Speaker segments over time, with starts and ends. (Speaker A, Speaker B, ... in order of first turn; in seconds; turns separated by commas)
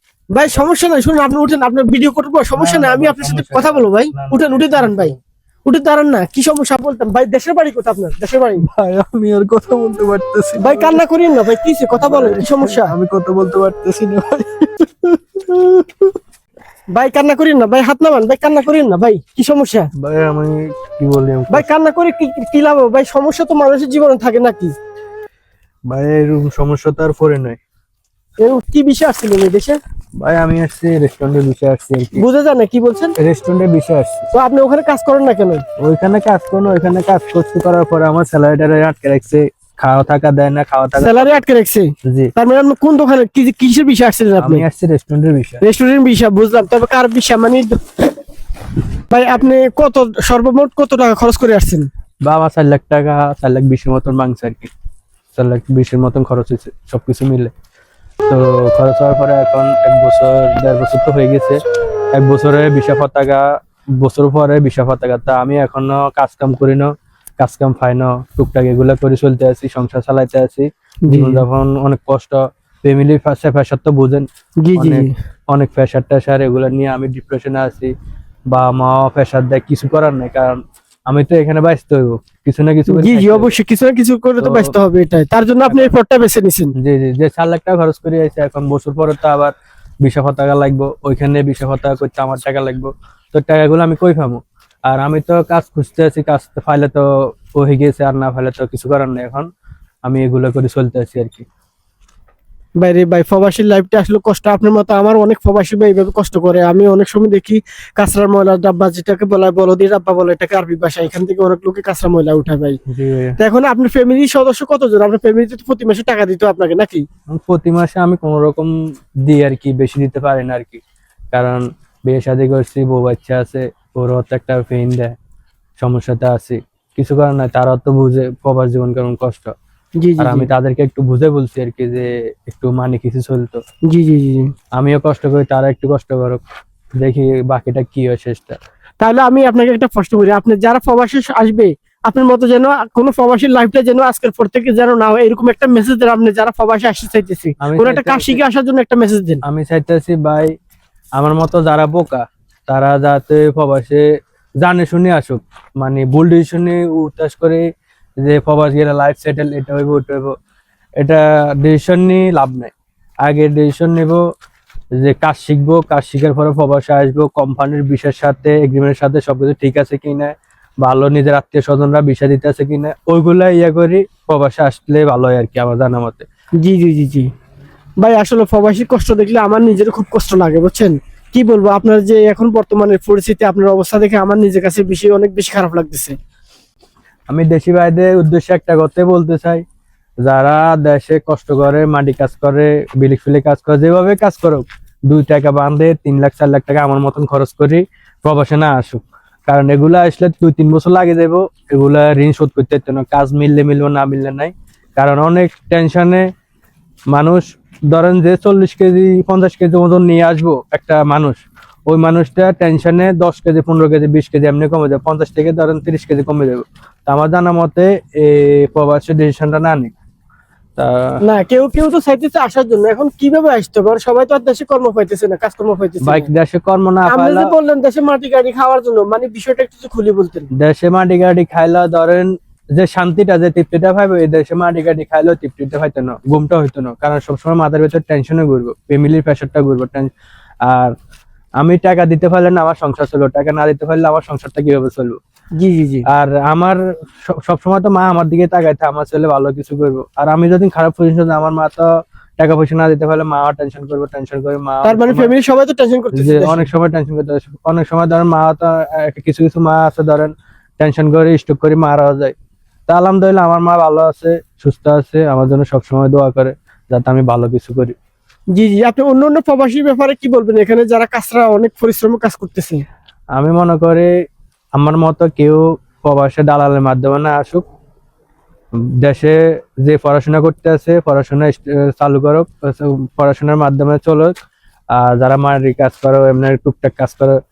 Speaker A: 0.3-5.1, Speaker B: 2.5-5.2, Speaker A: 5.7-8.7, Speaker B: 8.6-11.0, Speaker A: 10.6-12.9, Speaker B: 11.9-16.1, Speaker A: 16.9-19.9, Speaker B: 19.9-21.6, Speaker A: 21.5-24.7, Speaker B: 25.9-27.6, Speaker A: 28.4-29.8, Speaker B: 30.2-32.2, Speaker A: 32.1-33.1, Speaker B: 33.2-34.2, Speaker A: 34.3-35.6, Speaker B: 35.8-41.4, Speaker A: 41.0-44.6, Speaker B: 42.0-42.3, Speaker B: 44.4-45.6, Speaker A: 45.6-47.8, Speaker A: 49.1-51.9, Speaker B: 52.2-54.7, Speaker B: 55.3-57.5, Speaker B: 58.3-61.6, Speaker B: 62.1-63.5, Speaker B: 64.0-74.2, Speaker A: 71.0-71.4, Speaker A: 74.6-75.1, Speaker B: 74.8-77.9, Speaker B: 78.5-83.5, Speaker A: 82.9-86.7, Speaker B: 84.4-84.7, Speaker B: 85.7-85.9, Speaker B: 86.8-99.5, Speaker B: 100.1-101.4, Speaker A: 102.8-112.8, Speaker B: 112.9-113.3, Speaker A: 113.4-117.0, Speaker B: 117.3-118.7, Speaker B: 119.2-120.8, Speaker B: 121.3-125.2, Speaker B: 125.8-129.5, Speaker A: 130.0-130.5, Speaker B: 130.2-133.6, Speaker A: 133.9-134.5, Speaker B: 134.7-136.4, Speaker B: 137.0-138.6, Speaker A: 139.0-149.4, Speaker B: 147.6-148.4, Speaker B: 149.4-150.5, Speaker B: 151.2-154.1, Speaker B: 154.6-157.7, Speaker B: 158.2-160.3, Speaker B: 161.0-162.7, Speaker B: 163.2-164.2, Speaker B: 165.0-176.2, Speaker A: 176.6-177.3, Speaker A: 178.0-186.1, Speaker B: 187.3-189.6, Speaker B: 190.2-206.2, Speaker B: 207.1-219.9, Speaker B: 220.8-221.2, Speaker A: 221.2-226.3, Speaker B: 226.0-227.5, Speaker A: 227.1-230.5, Speaker B: 230.5-240.1, Speaker B: 240.6-240.9, Speaker B: 241.6-245.2, Speaker A: 245.6-246.1, Speaker B: 246.1-255.3, Speaker A: 254.8-256.7, Speaker B: 256.1-262.3, Speaker B: 262.9-267.9, Speaker A: 268.5-272.8, Speaker B: 273.3-274.1, Speaker B: 274.7-277.6, Speaker B: 278.8-284.3, Speaker B: 284.9-287.4